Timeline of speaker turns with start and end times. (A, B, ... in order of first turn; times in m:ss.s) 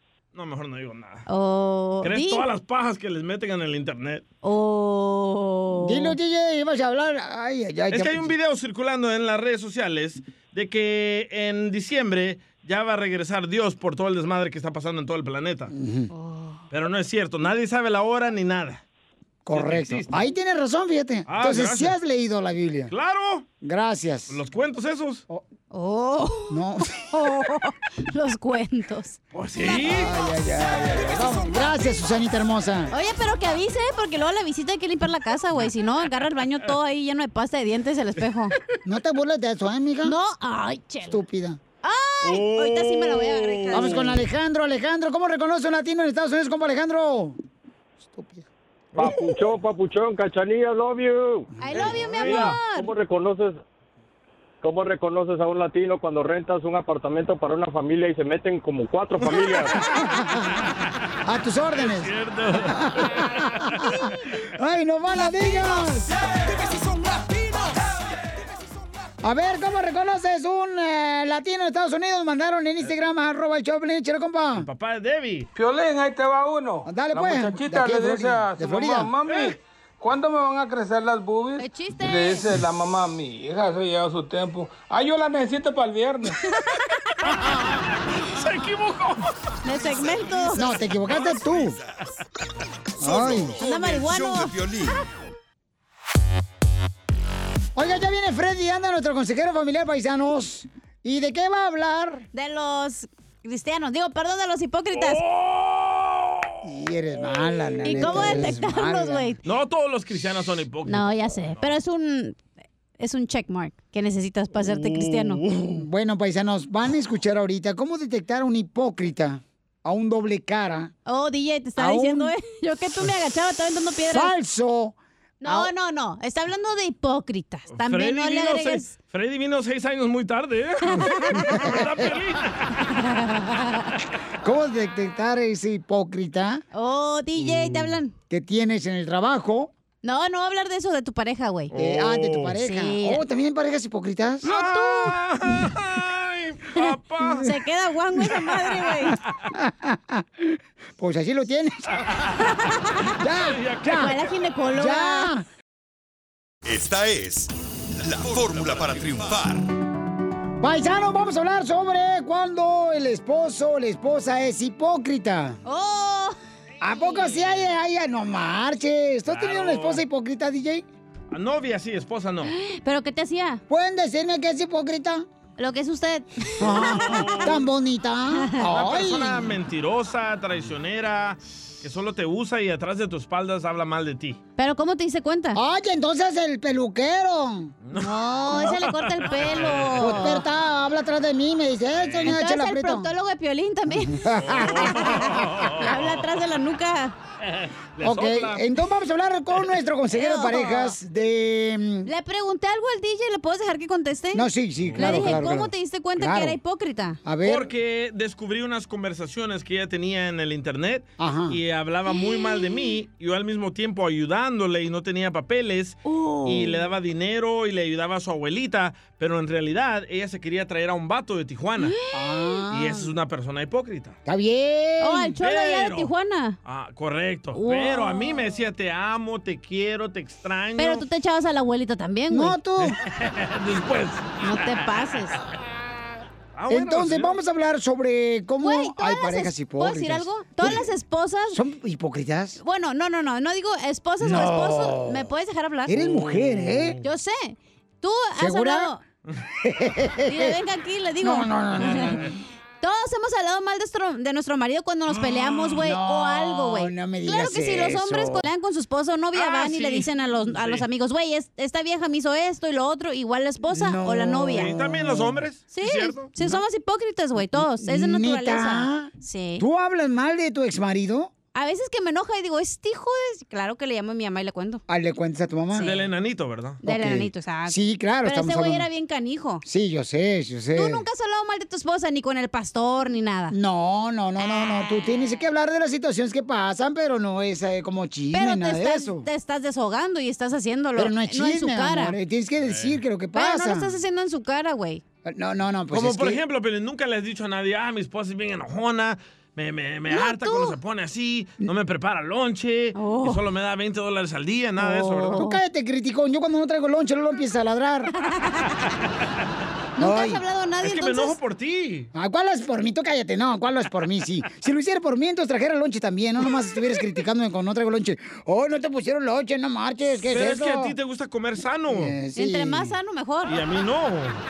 0:00.4-0:01.2 A
0:01.3-0:02.5 B
0:02.0-0:04.2 A
0:04.4-0:06.2 B
0:05.8-0:08.3 C
0:07.9-0:15.7 A
0:15.7-0:16.1 C
0:16.1-0:16.6 B
0:16.7-0:18.8 A
0:19.5-0:22.9 C
0:19.5-0:20.3 A
0:21.3-0:22.0 A
0:22.9-0:23.5 A
0:23.6-0:24.4 C
0:24.3-0:25.2 A
0:25.7-0:26.6 B
0:26.5-0:27.0 C
0:27.1-0:29.2 B
0:29.3-0:30.1 A
0:29.7-0:32.9 C
0:32.9-0:38.5 B
0:38.8-0:40.2 C
0:40.0-0:41.2 B
0:41.1-0:41.6 C
0:41.8-0:44.1 B
0:42.2-0:44.2 A
0:43.7-0:47.4 C
0:48.0-0:48.5 C
0:49.0-0:49.3 A
0:49.0-0:51.5 D
0:51.6-0:52.9 B
0:51.8-0:52.6 A
0:52.8-0:53.6 D
0:54.6-0:59.6 D
1:00.0-1:00.5 C
1:01.2-1:02.1 C
1:01.8-1:02.8 A
1:02.7-1:06.1 C
1:09.2-1:14.7 C
1:14.6-1:15.5 A
1:15.6-1:26.4 E
1:16.9-1:19.2 C
1:19.3-1:19.5 A
1:21.6-1:22.5 B
1:28.3-1:29.3 A
1:29.6-1:30.7 B
1:30.4-1:31.8 C
1:31.2-1:31.7 F
1:33.0-1:33.6 C
1:33.0-1:35.0 F
1:33.6-1:34.7 B
1:37.8-1:42.3 C
1:42.3-1:45.2 B
1:45.0-1:46.4 A
1:46.6-1:49.3 C
1:47.8-1:49.4 B
1:47.9-1:48.6 A
1:49.4-1:51.7 A
1:50.9-1:52.4 B
1:53.0-1:55.4 B
1:54.6-1:55.8 A
1:55.7-2:00.9 C
2:01.1-2:04.3 B
2:01.8-2:02.3 C
2:04.1-2:05.7 C
2:05.4-2:09.0 B
2:07.7-2:12.6 A
2:10.9-2:11.6 B
2:11.4-2:12.1 C
2:12.9-2:13.9 B
2:14.4-2:16.6 C
2:16.7-2:18.1 B
2:18.3-2:19.7 C
2:20.0-2:21.7 B
2:21.7-2:22.6 A
2:21.7-2:24.5 C
2:22.6-2:23.2 B
2:24.4-2:25.2 B
2:24.4-2:27.6 A
2:27.4-2:29.2 B
2:28.2-2:28.8 A
2:29.5-2:32.0 C
2:33.2-2:34.2 C
2:33.3-2:34.1 A
2:33.9-2:35.3 B
2:34.7-2:35.4 C
2:36.6-2:39.6 F
2:40.6-2:45.6 C
2:45.7-2:46.4 B
2:46.8-2:50.8 C
2:47.0-2:47.4 B
2:49.3-2:50.0 A
2:51.3-2:52.5 A
2:52.5-2:53.6 B
2:53.7-2:55.3 C
2:55.6-2:57.4 B
2:56.6-2:59.5 C
2:56.8-2:57.6 A
2:58.6-3:04.4 A
3:04.6-3:05.6 B
3:05.6-3:08.8 C
3:07.8-3:08.7 A
3:08.5-3:10.4 B
3:09.2-3:09.9 A
3:09.9-3:13.1 C
3:12.0-3:12.4 A
3:12.2-3:14.3 B
3:14.1-3:15.4 C
3:14.4-3:16.2 A
3:15.8-3:17.2 B
3:17.4-3:18.7 A
3:18.0-3:22.1 C
3:20.1-3:21.0 B
3:22.1-3:27.2 B
3:24.3-3:26.6 C
3:24.8-3:25.5 A
3:27.2-3:27.7 C
3:27.4-3:41.9 A
3:31.2-3:31.6 C
3:32.4-3:32.6 B
3:36.0-3:36.8 B
3:41.8-3:42.5 B
3:42.1-3:43.1 C
3:42.7-3:44.2 A
3:44.3-3:45.4 C
3:45.0-3:46.6 B
3:45.4-3:46.1 A
3:46.6-3:51.0 A
3:47.5-3:48.5 B
3:50.8-3:52.6 B
3:52.3-3:53.0 C
3:52.8-3:54.4 A
3:54.4-3:55.4 B
3:56.6-3:57.4 A
3:56.7-4:00.9 C
3:58.6-4:01.6 B
4:01.5-4:02.6 C
4:02.6-4:06.0 B
4:04.2-4:05.3 C
4:05.9-4:07.0 C
4:06.0-4:06.9 A
4:07.0-4:09.0 B
4:08.4-4:08.9 C
4:09.6-4:10.6 C
4:10.3-4:12.2 B
4:11.2-4:12.4 C
4:12.8-4:24.8 B
4:15.1-4:18.4 C
4:19.4-4:20.9 A
4:23.7-4:25.4 C
4:24.5-4:26.3 A
4:25.7-4:29.6 B
4:27.5-4:31.3 C
4:31.5-4:34.8 B
4:34.9-4:35.9 C
4:35.7-4:36.1 B
4:35.8-4:36.8 A
4:36.8-4:39.6 B
4:36.8-4:38.9 C
4:39.6-4:41.1 C
4:40.8-4:43.6 B
4:43.5-4:49.3 C
4:44.4-4:45.4 B
4:48.3-4:52.2 B
4:51.0-4:54.0 C
4:52.6-4:53.0 A
4:53.3-4:55.0 B
4:55.2-4:56.4 C
4:55.9-5:05.4 A
5:00.1-5:00.8 B
5:03.0-5:03.4 B
5:04.8-5:05.6 B
5:05.3-5:08.1 C
5:08.2-5:08.7 B
5:10.0-5:11.4 B
5:10.0-5:10.4 C
5:10.8-5:12.1 A
5:12.1-5:21.0 C
5:20.2-5:22.2 A
5:21.9-5:23.0 C
5:22.3-5:23.6 B
5:23.5-5:24.4 A